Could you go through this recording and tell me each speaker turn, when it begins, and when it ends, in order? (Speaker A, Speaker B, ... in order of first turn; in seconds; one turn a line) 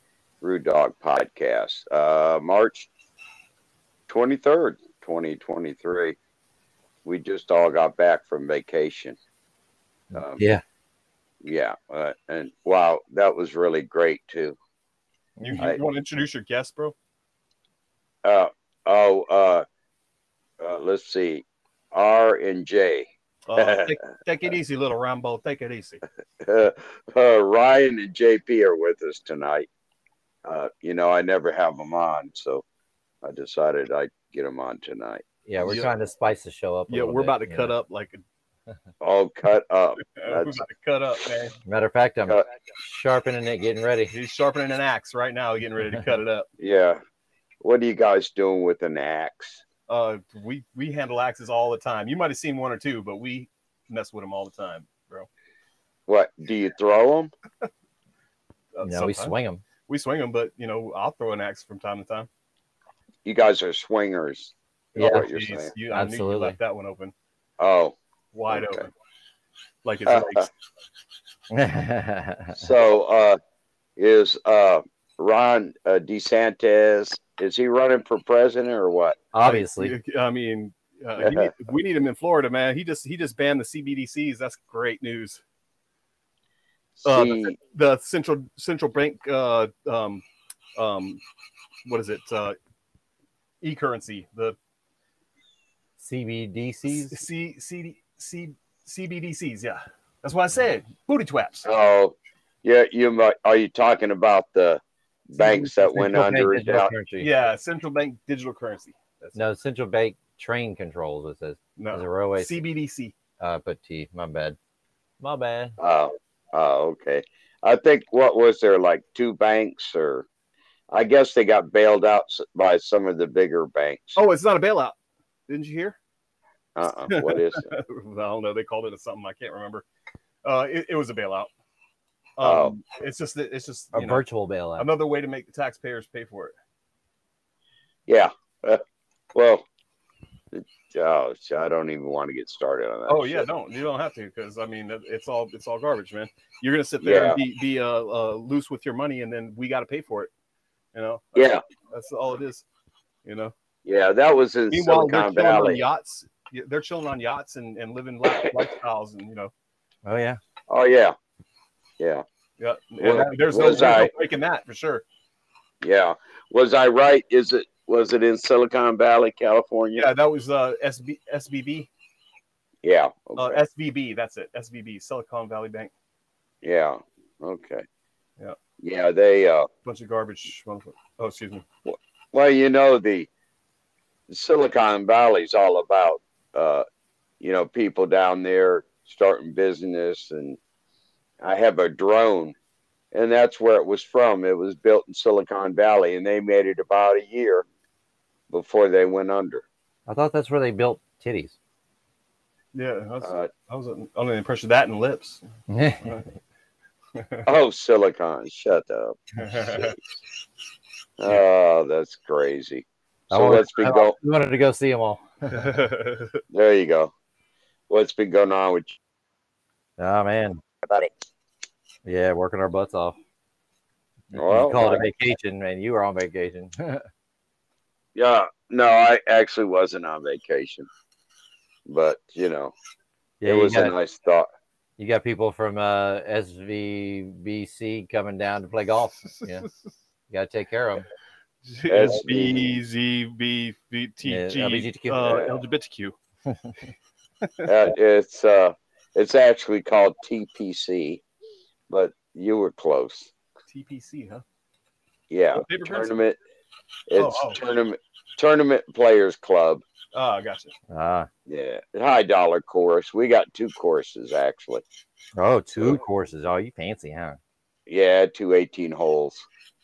Speaker A: 0.4-2.9
Speaker A: 4.1-6.2
Speaker A: 7.0-9.2
Speaker B: 10.1-10.6
Speaker A: 10.1-10.4
Speaker A: 11.4-14.6
Speaker B: 15.4-15.6
Speaker C: 15.4-16.9
Speaker A: 18.2-19.6
Speaker A: 20.6-24.1
Speaker C: 23.5-26.0
Speaker A: 26.4-29.7
Speaker A: 30.4-32.6
Speaker A: 33.2-35.8
Speaker B: 35.5-37.7
Speaker C: 35.6-35.9
Speaker C: 36.9-38.2
Speaker A: 39.0-40.6
Speaker C: 40.1-41.5
Speaker B: 41.6-44.1
Speaker C: 44.1-46.5
Speaker A: 46.6-47.0
Speaker A: 47.6-49.6
Speaker C: 49.9-55.3
Speaker A: 56.1-57.3
Speaker C: 58.7-59.3
Speaker B: 58.8-59.6
Speaker C: 59.9-62.3
Speaker A: 63.2-65.7
Speaker B: 64.9-65.3
Speaker C: 65.0-67.1
Speaker B: 65.9-66.6
Speaker A: 67.6-68.0
Speaker C: 68.3-68.9
Speaker A: 68.5-68.9
Speaker C: 69.8-70.5
Speaker A: 70.0-70.5
Speaker B: 71.5-72.7
Speaker A: 72.5-73.4
Speaker A: 74.0-79.2
Speaker B: 79.3-80.0
Speaker C: 79.4-85.4
Speaker A: 81.2-81.5
Speaker A: 86.9-87.5
Speaker C: 87.0-90.2
Speaker C: 90.7-91.2
Speaker C: 91.8-92.6
Speaker C: 93.6-94.5
Speaker B: 96.0-97.2
Speaker C: 96.9-101.7
Speaker A: 101.6-106.9
Speaker B: 105.4-107.3
Speaker C: 107.2-109.4
Speaker B: 109.3-112.6
Speaker C: 111.8-113.1
Speaker B: 113.4-114.5
Speaker B: 115.2-115.8
Speaker A: 115.8-120.2
Speaker A: 120.9-124.2
Speaker C: 124.1-125.0
Speaker C: 125.5-126.0
Speaker A: 126.8-127.7
Speaker C: 127.1-129.8
Speaker C: 130.4-131.5
Speaker C: 132.4-134.2
Speaker A: 132.4-132.8
Speaker B: 133.9-134.9
Speaker C: 134.8-136.5
Speaker A: 138.1-138.8
Speaker A: 139.3-139.7
Speaker A: 140.5-143.5
Speaker C: 143.1-150.3
Speaker A: 147.0-147.4
Speaker C: 150.9-152.6
Speaker A: 151.3-151.6
Speaker C: 153.2-153.5
Speaker A: 153.8-155.8
Speaker C: 154.7-159.5
Speaker A: 158.3-158.6
Speaker B: 160.0-160.4
Speaker A: 160.7-161.1
Speaker A: 162.0-162.2
Speaker C: 162.6-165.0
Speaker A: 163.0-164.1
Speaker A: 165.8-170.1
Speaker C: 169.9-171.9
Speaker A: 172.8-173.6
Speaker C: 173.4-175.9
Speaker A: 176.6-177.8
Speaker A: 178.8-179.7
Speaker C: 179.8-181.6
Speaker A: 181.8-183.3
Speaker A: 184.3-186.8
Speaker A: 187.4-190.6
Speaker A: 191.4-192.5
Speaker A: 193.1-197.7
Speaker A: 198.5-199.6
Speaker B: 200.1-201.5
Speaker C: 202.7-205.4
Speaker A: 203.2-203.5
Speaker B: 205.7-206.2
Speaker C: 207.1-207.5
Speaker A: 207.4-210.0
Speaker C: 209.4-209.9
Speaker A: 211.2-214.2
Speaker B: 213.3-215.6
Speaker C: 215.5-216.4
Speaker A: 216.5-217.1
Speaker A: 217.9-219.0
Speaker B: 220.0-220.6
Speaker B: 222.0-223.2
Speaker B: 224.3-227.1
Speaker A: 224.3-225.1
Speaker A: 228.1-230.9
Speaker A: 231.9-232.7
Speaker B: 233.4-233.9
Speaker A: 233.4-234.5
Speaker B: 235.0-239.7
Speaker B: 240.3-241.1
Speaker C: 241.6-246.1
Speaker A: 241.9-242.8
Speaker B: 244.2-245.5
Speaker C: 247.4-247.7
Speaker A: 247.6-251.2
Speaker A: 251.9-253.3
Speaker C: 253.7-254.4
Speaker A: 255.3-256.4
Speaker C: 255.5-256.2
Speaker A: 257.1-259.8
Speaker C: 257.1-257.6
Speaker C: 260.1-260.7
Speaker B: 260.9-261.3
Speaker A: 261.5-264.8
Speaker B: 265.4-267.4
Speaker A: 267.9-269.4